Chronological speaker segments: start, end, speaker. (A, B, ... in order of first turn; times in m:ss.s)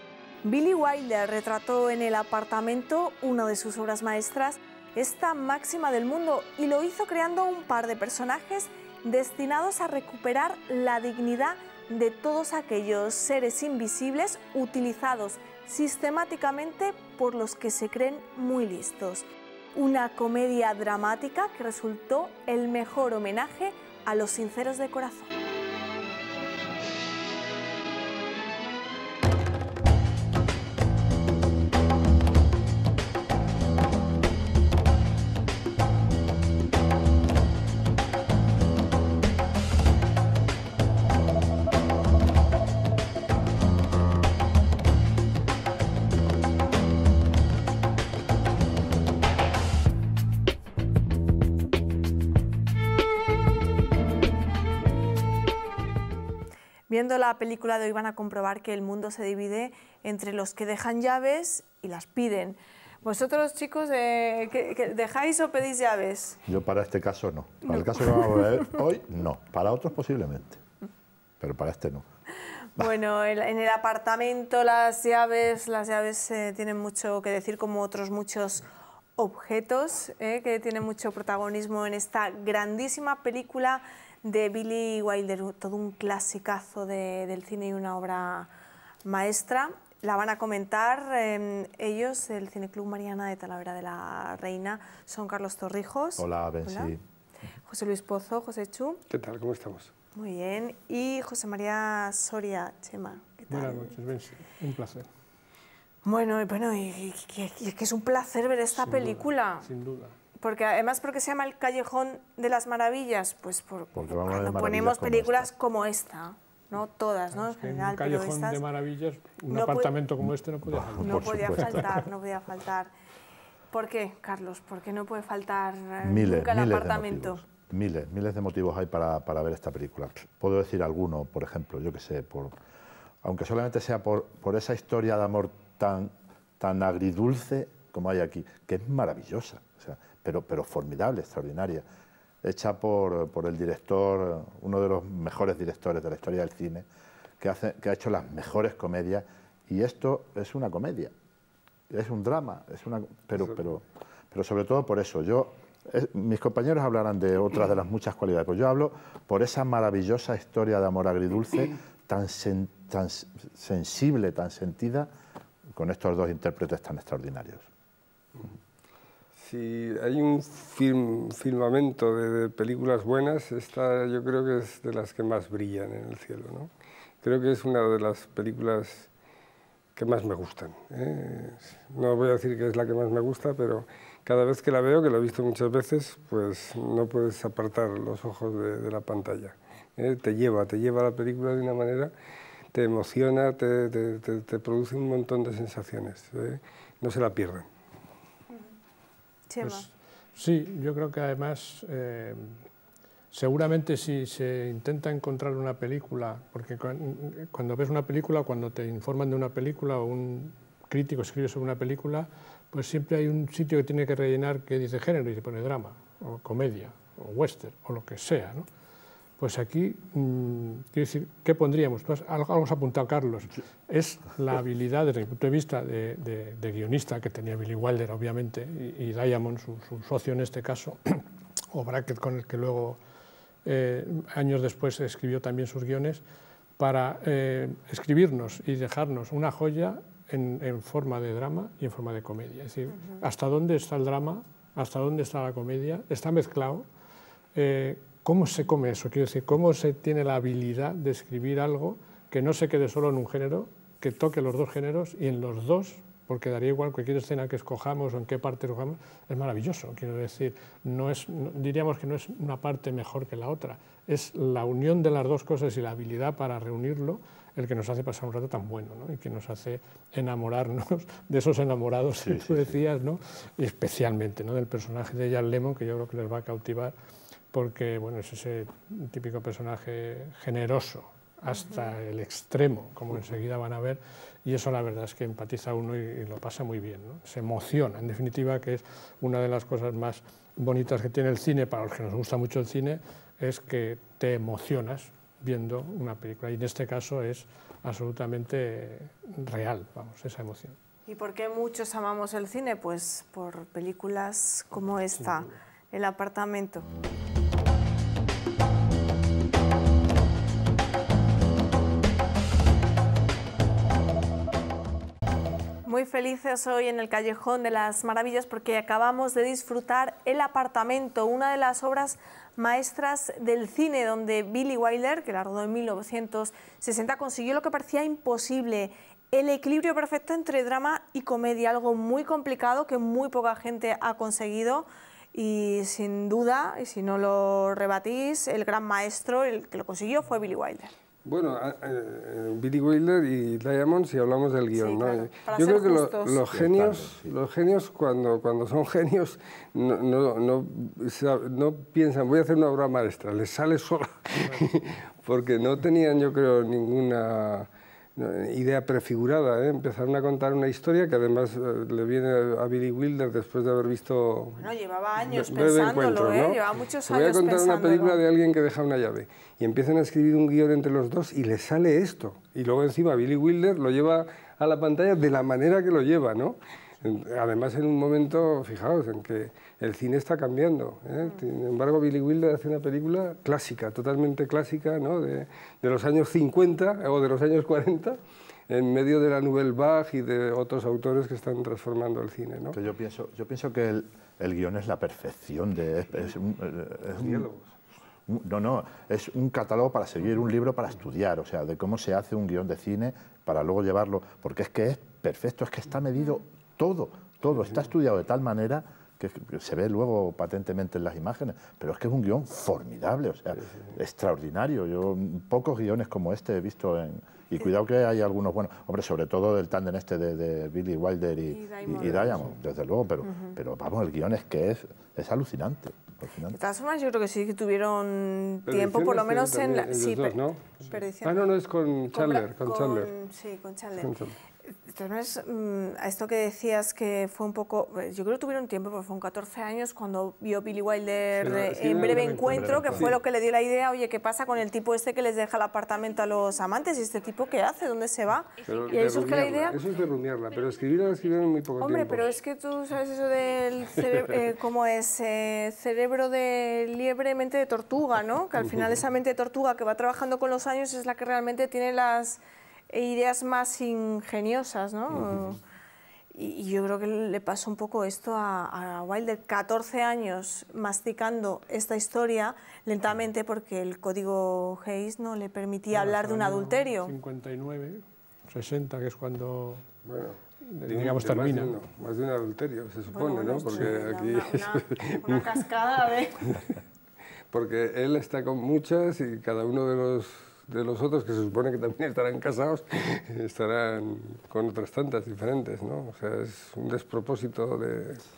0:00.4-0:25.3 A
0:56.9-1:06.4 A
1:06.4-1:10.6 B
1:07.6-1:08.7 A
1:11.4-1:12.0 B
1:12.8-1:28.5 A
1:29.0-1:36.9 A
1:36.2-1:37.0 B
1:37.6-1:39.0 A
1:39.1-1:39.9 C
1:40.1-1:43.9 A
1:43.5-1:45.1 D
1:46.0-1:49.7 A
1:48.8-1:50.2 D
1:50.4-1:58.6 A
1:53.9-1:55.5 B
1:57.3-2:02.0 D
1:59.5-1:59.9 A
2:00.2-2:02.0 B
2:01.0-2:02.9 A
2:03.7-2:07.4 A
2:06.0-2:12.5 B
2:13.2-2:21.8 B
2:22.4-2:26.8 B
2:27.4-2:31.1 B
2:31.9-2:45.1 B
2:45.7-2:47.7 B
2:49.3-2:56.7 C
2:57.2-2:59.1 C
3:00.0-3:12.1 C
3:12.7-3:17.7 C
3:19.5-3:19.9 A
3:19.6-3:22.6 D
3:23.3-3:38.7 D
3:39.4-3:53.0 D
3:53.6-3:56.2 D
3:56.8-4:06.8 D
4:07.5-4:36.9 D
4:32.2-4:32.7 B
4:37.5-5:00.8 D
4:41.5-4:41.9 A
5:01.1-5:06.9 A
5:15.8-5:40.9 A
5:41.2-6:32.8 C
5:44.7-5:46.4 A
5:46.5-5:47.3 B
6:04.6-6:08.2 A
6:32.7-6:37.5 B
6:37.1-6:37.6 C
6:38.3-7:06.6 B
6:53.6-6:53.9 C
7:01.5-7:02.6 A
7:03.2-7:03.6 A
7:06.5-7:11.4 A
7:08.7-7:13.1 C
7:12.1-7:14.1 A
7:14.0-7:14.3 C
7:14.7-7:29.8 A
7:21.3-7:23.2 C
7:22.4-7:23.1 B
7:28.6-7:32.3 C
7:31.8-7:45.6 A
7:46.3-7:57.1 A
7:55.9-7:59.9 D
8:00.0-8:05.6 C
8:00.6-8:01.8 D
8:03.1-8:06.6 A
8:06.4-8:06.7 C
8:07.5-8:18.2 C